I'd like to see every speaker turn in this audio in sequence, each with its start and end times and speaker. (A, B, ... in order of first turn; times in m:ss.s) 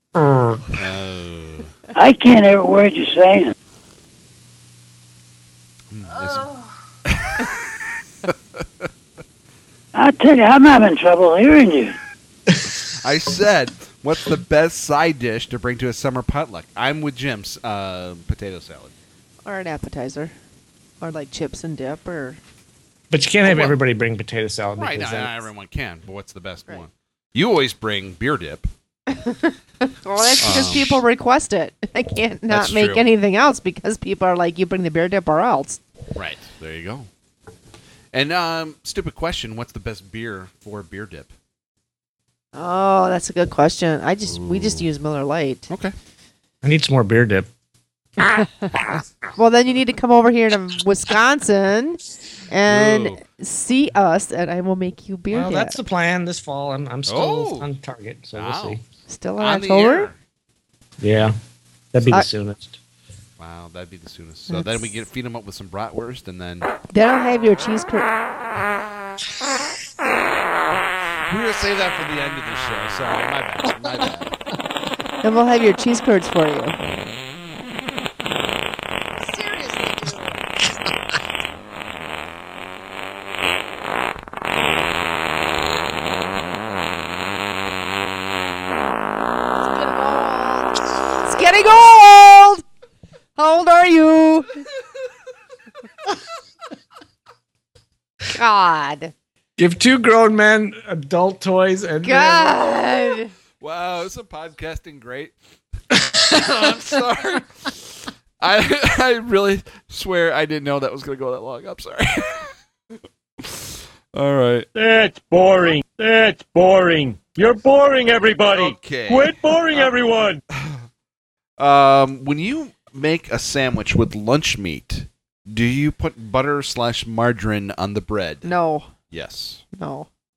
0:00.3-0:00.6 A
0:00.7-0:01.7 B
0:02.0-0:03.5 C
0:05.9-0:06.5 B
0:07.1-0:07.5 B
0:08.2-0:08.9 B
0:09.9-0:11.9 C
0:12.9-0:18.9 B
0:19.4-0:20.3 D
0:21.0-0:22.4 D
0:23.1-0:25.4 A
0:23.4-0:23.8 B
0:24.8-0:28.7 B
0:29.1-0:35.8 D
0:30.2-0:31.0 B
0:32.5-0:33.0 B
0:36.1-0:37.1 B
0:38.1-0:41.3 B
0:42.5-0:45.7 D
0:44.2-0:44.9 B
0:45.7-0:45.9 B
0:46.6-0:47.5 A
0:48.4-0:48.7 D
0:49.4-0:55.8 D
0:52.6-0:53.2 B
0:55.3-0:58.8 A
0:57.1-0:57.7 B
0:58.3-0:58.8 B
0:59.1-1:00.1 D
0:59.4-1:00.2 B
1:01.0-1:01.3 A
1:01.9-1:02.8 A
1:03.4-1:06.7 B
1:04.5-1:04.9 D
1:06.9-1:08.1 D
1:11.3-1:14.3 B
1:15.2-1:16.8 D
1:19.3-1:20.4 D
1:29.6-1:32.6 D
1:33.4-1:34.6 D
1:38.3-1:39.1 D
1:39.6-1:42.8 A
1:42.0-1:43.3 D
1:43.6-1:45.3 B
1:45.9-1:52.5 B
1:53.4-1:54.7 B
1:54.7-2:00.4 E
1:58.4-2:00.9 B
2:01.6-2:08.5 B
2:08.4-2:08.9 D
2:09.1-2:09.6 B
2:09.8-2:10.1 D